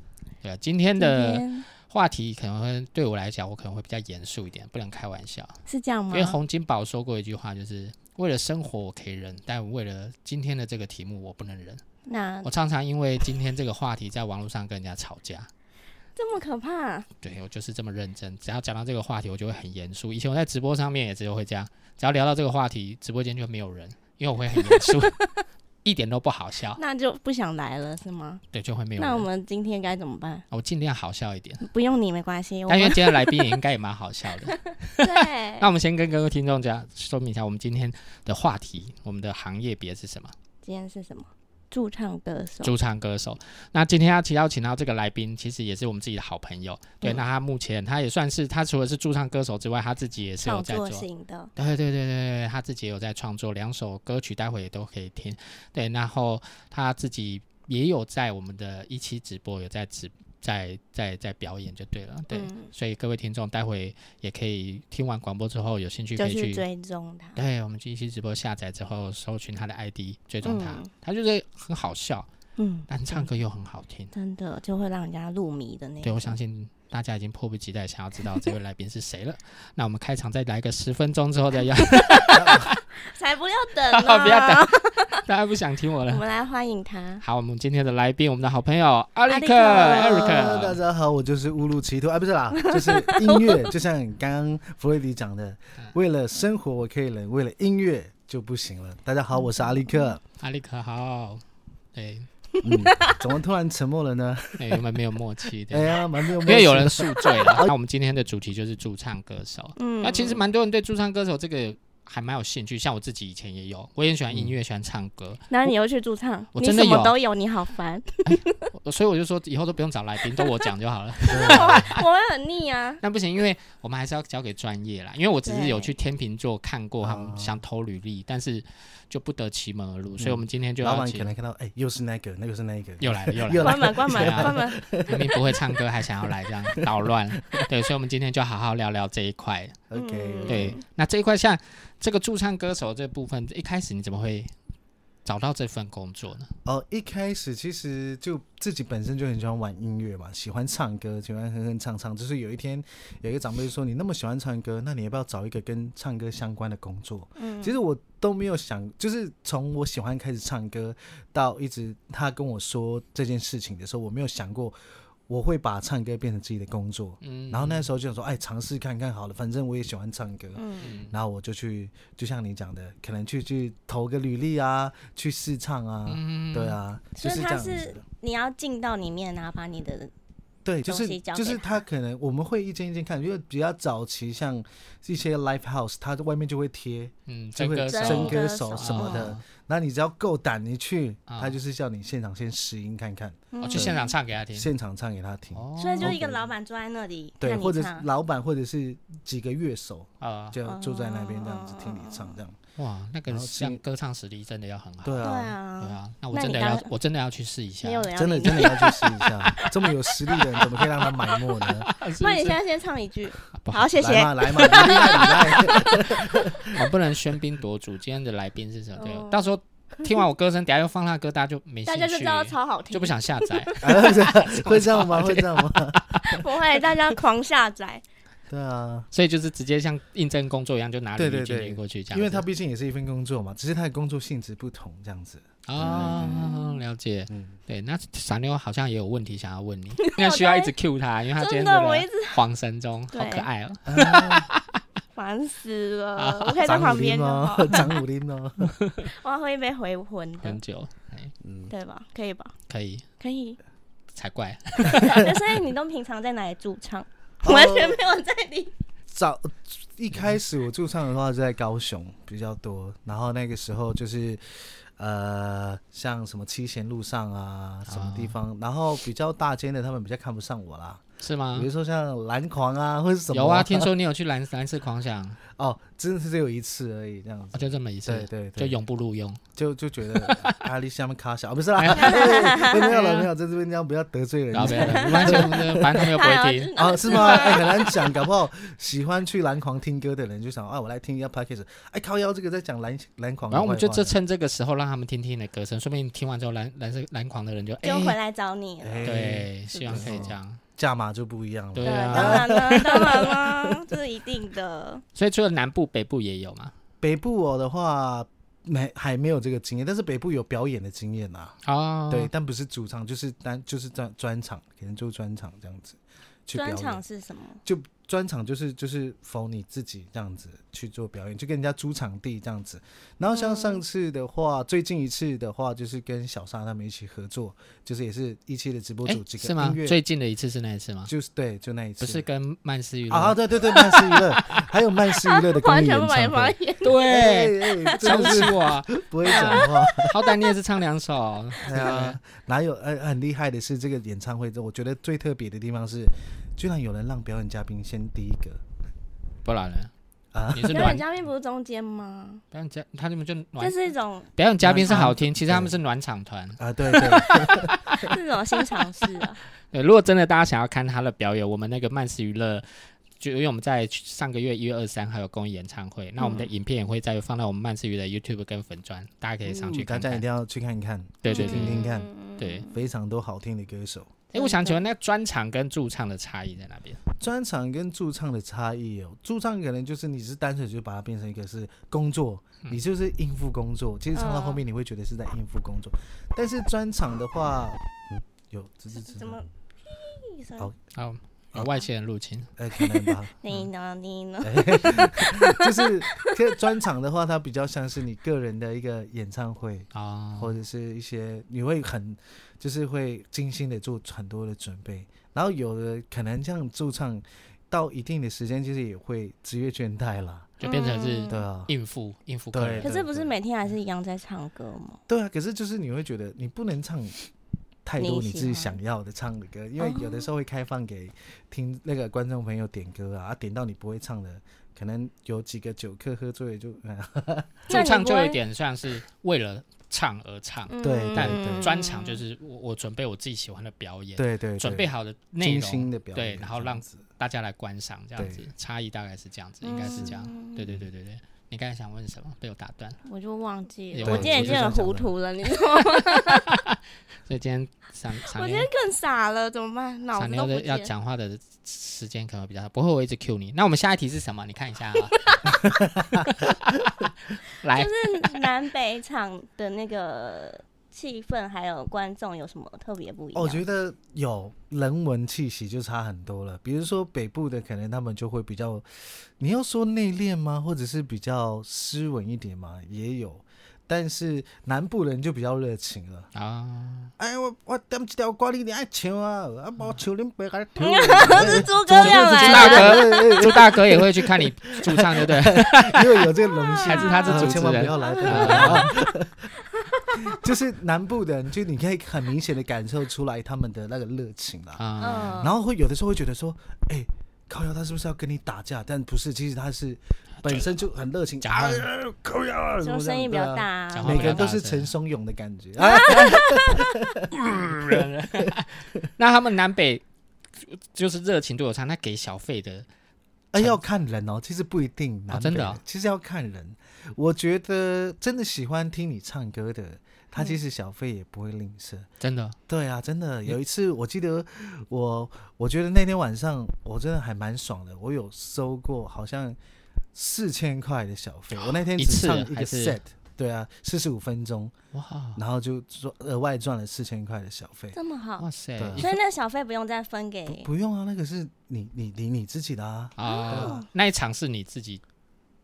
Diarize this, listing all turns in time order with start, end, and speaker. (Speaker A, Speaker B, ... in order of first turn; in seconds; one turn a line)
Speaker A: 0.4-5.6
Speaker B: 1.0-1.6
Speaker B: 5.7-6.4
Speaker A: 6.1-11.8
Speaker B: 12.1-12.5
Speaker A: 12.4-15.5
Speaker B: 16.1-17.1
Speaker A: 17.2-25.2
Speaker B: 24.5-25.3
Speaker A: 25.8-26.8
Speaker B: 26.8-28.4
Speaker A: 28.5-29.3
Speaker B: 29.0-30.4
Speaker A: 30.5-31.6
Speaker B: 31.6-33.5
Speaker A: 32.7-40.3
Speaker B: 34.5-35.7
Speaker B: 40.6-42.7
Speaker A: 42.6-66.6
Speaker B: 50.4-51.5
Speaker B: 62.3-62.7
Speaker B: 66.2-67.4
Speaker A: 67.3-72.3
Speaker B: 70.4-70.9
Speaker B: 72.6-73.2
Speaker A: 72.9-74.1
Speaker B: 74.1-76.4
Speaker A: 76.0-82.8
Speaker B: 81.8-82.5
Speaker C: 82.3-82.7
Speaker B: 83.0-85.2
Speaker A: 83.9-86.2
Speaker B: 86.1-87.2
Speaker A: 87.2-90.8
Speaker B: 89.3-90.6
Speaker C: 89.7-100.2
Speaker B: 92.5-93.7
Speaker A: 100.4-101.4
Speaker A: 101.9-102.3
Speaker B: 102.6-103.2
Speaker C: 102.6-104.8
Speaker A: 104.6-115.5
Speaker C: 105.7-107.7
Speaker B: 109.8-110.4
Speaker C: 114.3-114.5
Speaker B: 115.5-118.7
Speaker A: 116.5-117.1
Speaker A: 118.3-122.0
Speaker B: 120.4-120.6
Speaker B: 121.3-123.0
Speaker C: 121.3-121.9
Speaker A: 123.0-131.3
Speaker B: 125.4-125.9
Speaker C: 127.0-127.5
Speaker C: 130.2-137.7
Speaker A: 133.0-139.8
Speaker B: 133.6-134.8
Speaker C: 139.9-140.8
Speaker B: 139.9-140.8
Speaker A: 140.5-144.5
Speaker A: 145.2-146.5
Speaker C: 146.6-178.0
Speaker B: 157.4-157.7
Speaker A: 167.2-167.9
Speaker B: 170.6-171.0
Speaker A: 170.8-171.1
Speaker A: 176.1-176.8
Speaker B: 177.2-180.1
Speaker C: 180.6-194.0
Speaker B: 180.8-181.8
Speaker A: 187.3-189.4
Speaker B: 187.9-189.3
Speaker A: 191.3-191.6
Speaker B: 193.5-194.1
Speaker A: 193.6-194.7
Speaker C: 194.5-196.5
Speaker A: 195.5-196.2
Speaker B: 195.8-198.1
Speaker C: 197.4-202.6
Speaker A: 200.2-200.6
Speaker B: 200.6-202.4
Speaker A: 202.8-205.2
Speaker C: 203.3-203.8
Speaker C: 205.0-205.5
Speaker B: 205.2-206.9
Speaker A: 205.8-208.8
Speaker B: 207.8-210.8
Speaker C: 208.1-211.9
Speaker A: 211.8-212.6
Speaker B: 212.1-216.0
Speaker A: 213.5-215.5
Speaker C: 214.0-216.8
Speaker A: 216.7-223.8
Speaker B: 219.0-219.5
Speaker B: 221.8-224.4
Speaker C: 223.8-226.4
Speaker A: 224.4-225.7
Speaker B: 226.2-228.0
Speaker C: 228.5-229.1
Speaker A: 229.1-232.4
Speaker C: 231.2-236.5
Speaker A: 235.7-244.6
Speaker B: 236.1-236.8
Speaker C: 237.3-237.6
Speaker B: 240.0-240.7
Speaker B: 241.4-242.4
Speaker B: 243.1-243.5
Speaker C: 243.9-244.5
Speaker B: 245.1-248.0
Speaker A: 246.2-246.6
Speaker C: 246.6-248.7
Speaker A: 248.6-249.1
Speaker B: 249.1-250.6
Speaker A: 250.4-251.3
Speaker C: 251.4-251.7
Speaker B: 251.7-252.5
Speaker A: 252.7-253.0
Speaker B: 253.2-253.6
Speaker A: 254.1-255.3
Speaker B: 254.9-258.7
Speaker C: 254.9-255.2
Speaker C: 257.4-258.0
Speaker C: 259.1-271.0
Speaker A: 267.9-268.4
Speaker A: 271.2-271.7
Speaker C: 271.5-273.9
Speaker A: 273.3-275.4
Speaker C: 275.5-278.8
Speaker A: 277.5-279.4
Speaker C: 279.6-286.1
Speaker A: 280.1-280.6
Speaker A: 281.8-283.3
Speaker B: 282.0-282.9
Speaker A: 284.5-287.8
Speaker B: 284.6-287.9
Speaker C: 286.8-294.1
Speaker A: 293.5-298.2
Speaker B: 297.8-300.3
Speaker C: 298.8-303.3
Speaker A: 299.0-300.6
Speaker A: 301.7-303.4
Speaker B: 301.8-305.0
Speaker A: 305.1-306.7
Speaker C: 307.0-317.0
Speaker A: 311.6-312.3
Speaker B: 316.5-317.6
Speaker C: 317.6-330.0
Speaker B: 323.3-323.8
Speaker A: 329.1-331.1
Speaker C: 331.1-332.2
Speaker A: 332.0-334.7
Speaker C: 333.1-340.1
Speaker B: 335.2-337.0
Speaker A: 336.8-342.2
Speaker B: 337.8-338.5
Speaker B: 339.2-340.5
Speaker C: 341.6-348.6
Speaker A: 349.4-349.9
Speaker C: 350.3-351.0
Speaker A: 350.5-351.1
Speaker B: 350.7-352.4
Speaker A: 352.5-353.8
Speaker B: 353.6-354.3
Speaker A: 354.4-358.1
Speaker C: 354.6-355.8
Speaker C: 356.6-358.1
Speaker B: 358.0-359.4
Speaker A: 359.7-370.2
Speaker B: 366.2-366.5
Speaker C: 369.4-372.1
Speaker A: 371.2-372.7
Speaker B: 371.3-372.7
Speaker C: 372.7-374.2
Speaker A: 374.3-377.0
Speaker B: 374.3-374.8
Speaker C: 377.2-389.4
Speaker B: 384.1-384.6
Speaker B: 388.9-390.7
Speaker A: 390.9-392.5
Speaker C: 392.6-393.3
Speaker B: 392.8-396.3
Speaker C: 394.4-410.5
Speaker A: 399.9-400.5
Speaker A: 410.6-412.9
Speaker B: 410.6-411.4
Speaker C: 411.3-411.7
Speaker C: 412.5-413.3
Speaker B: 412.8-415.0
Speaker C: 415.1-417.2
Speaker C: 417.8-427.8
Speaker B: 418.0-418.8
Speaker B: 419.8-420.2
Speaker A: 427.7-443.0
Speaker B: 427.7-428.4
Speaker B: 430.7-432.2
Speaker C: 430.8-431.7
Speaker C: 434.2-434.9
Speaker C: 435.4-437.0
Speaker C: 438.2-438.5
Speaker B: 439.6-440.6
Speaker C: 439.8-440.1
Speaker B: 443.1-446.5
Speaker A: 443.9-444.8
Speaker C: 444.0-445.1
Speaker A: 445.9-448.7
Speaker B: 448.3-450.9
Speaker A: 450.1-458.4
Speaker C: 455.5-456.3
Speaker B: 457.7-463.6
Speaker C: 463.3-476.3
Speaker A: 476.3-477.1
Speaker C: 477.2-489.5
Speaker B: 480.8-483.3
Speaker A: 481.3-486.3
Speaker B: 486.5-489.1
Speaker A: 486.8-488.9
Speaker B: 489.7-490.4
Speaker C: 490.1-494.8
Speaker A: 494.8-495.5
Speaker B: 495.0-495.5
Speaker C: 495.4-509.1
Speaker A: 501.4-501.9
Speaker B: 502.8-504.5
Speaker A: 503.9-504.9
Speaker B: 505.8-506.8
Speaker A: 507.3-510.0
Speaker A: 510.6-512.9
Speaker C: 513.5-522.1
Speaker A: 515.3-515.8
Speaker A: 522.2-522.5
Speaker C: 522.7-529.6
Speaker C: 530.1-534.7
Speaker A: 531.5-533.0
Speaker A: 534.9-535.4
Speaker C: 535.4-538.0
Speaker B: 537.9-538.4
Speaker A: 538.4-539.1
Speaker C: 538.8-539.1
Speaker B: 539.0-540.7
Speaker C: 540.5-543.8
Speaker A: 543.2-545.0
Speaker B: 543.2-543.9